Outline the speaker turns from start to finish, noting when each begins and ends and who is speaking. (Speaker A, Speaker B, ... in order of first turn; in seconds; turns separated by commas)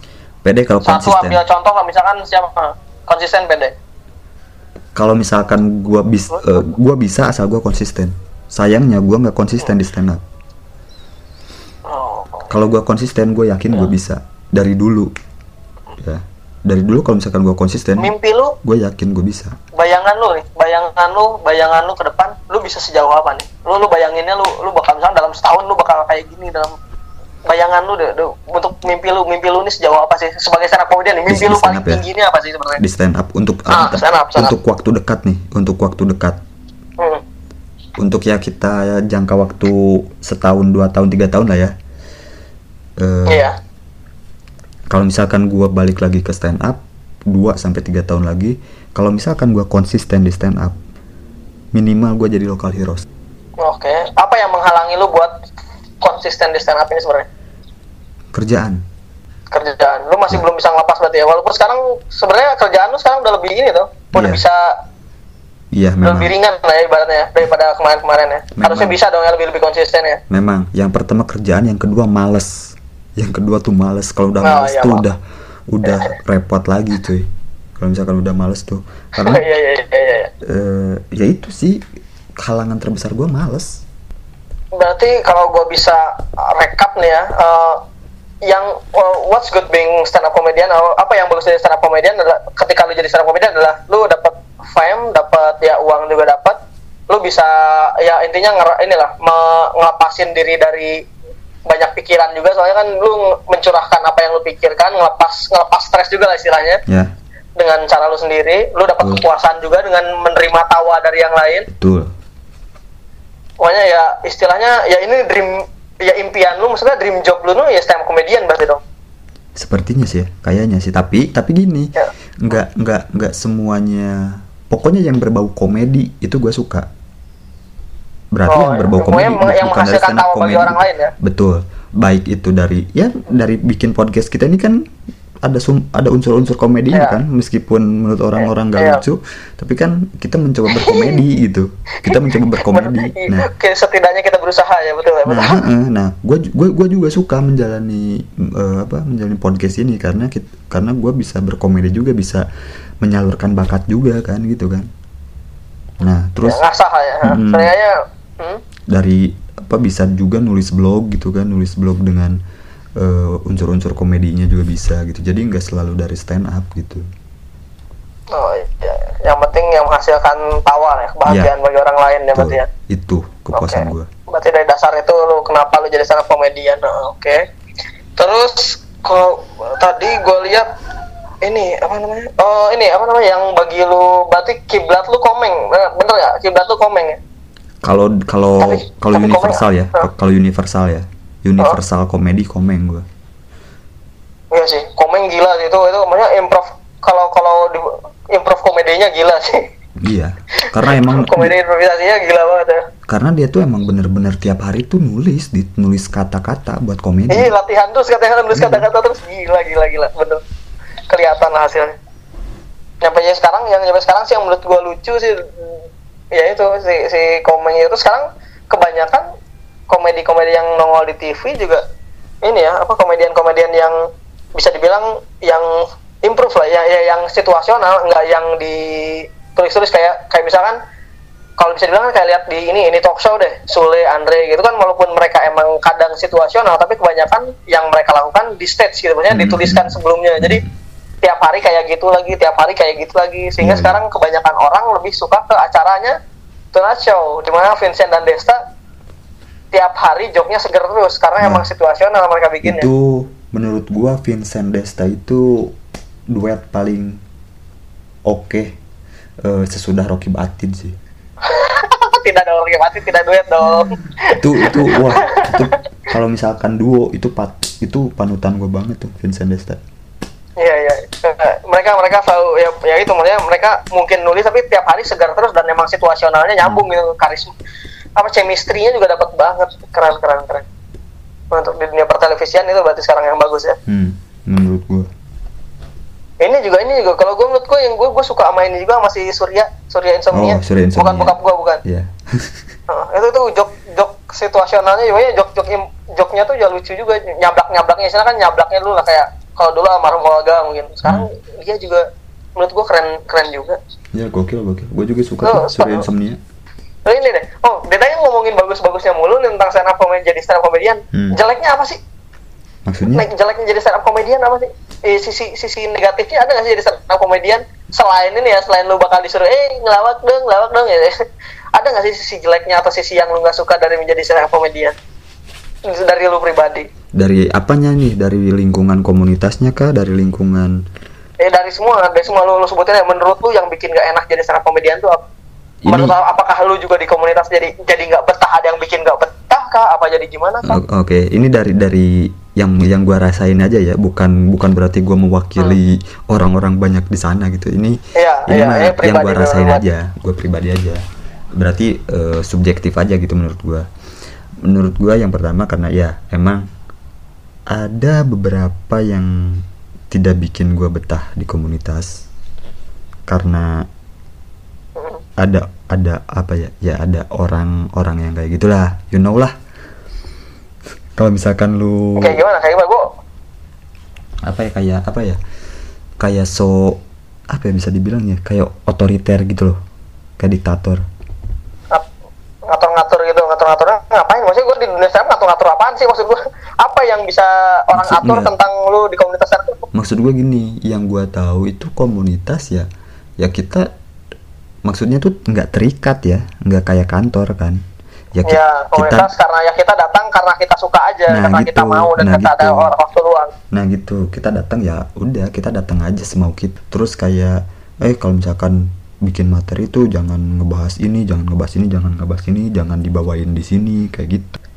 Speaker A: 0.4-1.4, Speaker B: 0.8-3.7, Speaker A: 5.0-10.2, Speaker B: 11.9-12.5, Speaker A: 12.5-15.1, Speaker A: 16.0-19.5, Speaker B: 18.0-18.6, Speaker B: 19.7-26.8, Speaker B: 27.4-32.8, Speaker A: 31.3-32.0, Speaker A: 32.8-36.4, Speaker B: 33.7-34.5, Speaker A: 38.0-41.7, Speaker A: 43.0-43.5, Speaker B: 43.3-43.5, Speaker A: 44.9-50.8, Speaker A: 51.7-53.0, Speaker B: 53.6-55.3, Speaker B: 56.0-57.3, Speaker A: 58.3-58.8, Speaker B: 59.5-64.7, Speaker A: 64.1-64.4, Speaker A: 65.7-66.3, Speaker B: 66.0-70.2, Speaker A: 68.6-68.9, Speaker A: 70.3-75.2, Speaker B: 74.4-75.0, Speaker A: 75.7-79.4, Speaker B: 79.2-80.3, Speaker A: 80.4-81.8, Speaker A: 82.4-83.8, Speaker B: 84.8-87.8, Speaker B: 88.5-96.6, Speaker B: 97.1-101.0, Speaker B: 101.7-106.8, Speaker B: 107.6-111.7, Speaker A: 111.7-112.1, Speaker B: 113.6-118.8, Speaker A: 119.5-126.9, Speaker A: 128.3-134.8, Speaker B: 128.5-131.1, Speaker A: 135.4-143.5, Speaker B: 136.9-137.2, Speaker B: 138.4-139.0, Speaker B: 140.7-141.2, Speaker B: 142.1-145.6, Speaker A: 145.2-152.4, Speaker A: 153.0-154.9, Speaker A: 156.0-156.6, Speaker B: 156.4-158.6, Speaker A: 157.2-157.7, Speaker A: 158.9-162.4, Speaker A: 163.0-167.0, Speaker B: 168.3-172.7, Speaker A: 171.3-171.5, Speaker A: 172.3-174.1, Speaker B: 173.5-177.4, Speaker B: 178.2-180.7, Speaker B: 181.4-187.2, Speaker A: 187.8-193.0, Speaker B: 188.6-190.1, Speaker B: 194.5-199.6, Speaker A: 200.0-201.5, Speaker B: 200.6-202.8, Speaker A: 203.1-207.5, Speaker B: 207.3-210.4, Speaker A: 208.5-208.9, Speaker B: 211.1-211.9, Speaker B: 213.0-215.7, Speaker B: 216.3-219.2, Speaker B: 219.9-221.8, Speaker B: 222.4-223.9, Speaker B: 224.5-230.8, Speaker B: 231.6-240.6, Speaker A: 239.3-240.7, Speaker B: 241.2-246.2, Speaker A: 243.6-244.0, Speaker B: 246.7-248.6, Speaker B: 249.7-252.9, Speaker A: 251.4-251.7, Speaker A: 252.6-255.7, Speaker A: 256.3-257.2, Speaker A: 258.2-258.7, Speaker A: 259.4-260.9, Speaker B: 261.4-265.8, Speaker A: 264.3-269.8, Speaker B: 270.6-277.5, Speaker B: 278.2-280.6, Speaker B: 281.5-283.8, Speaker A: 283.9-285.1, Speaker B: 286.4-291.8, Speaker A: 290.3-292.6, Speaker B: 292.9-302.1, Speaker B: 302.6-303.8, Speaker A: 304.1-306.4, Speaker B: 305.4-306.0, Speaker B: 307.1-312.0, Speaker A: 312.9-313.3, Speaker B: 313.1-321.1, Speaker B: 321.7-324.9, Speaker B: 325.9-326.9, Speaker A: 327.2-330.8, Speaker B: 331.4-335.2, Speaker A: 335.8-336.1, Speaker B: 335.9-340.8, Speaker A: 340.6-351.0, Speaker B: 348.1-349.8, Speaker A: 351.5-353.9, Speaker A: 354.6-356.7, Speaker A: 357.7-362.2, Speaker A: 363.3-363.9, Speaker A: 365.4-369.5, Speaker A: 371.2-372.4, Speaker B: 372.2-373.1, Speaker A: 374.4-375.4, Speaker A: 376.2-379.8, Speaker A: 380.4-381.0, Speaker B: 382.7-389.8, Speaker A: 387.9-388.5, Speaker A: 389.9-392.9, Speaker A: 393.4-393.9, Speaker A: 394.8-397.8, Speaker A: 398.3-399.3, Speaker B: 398.4-403.5, Speaker A: 401.3-402.9, Speaker A: 403.7-414.6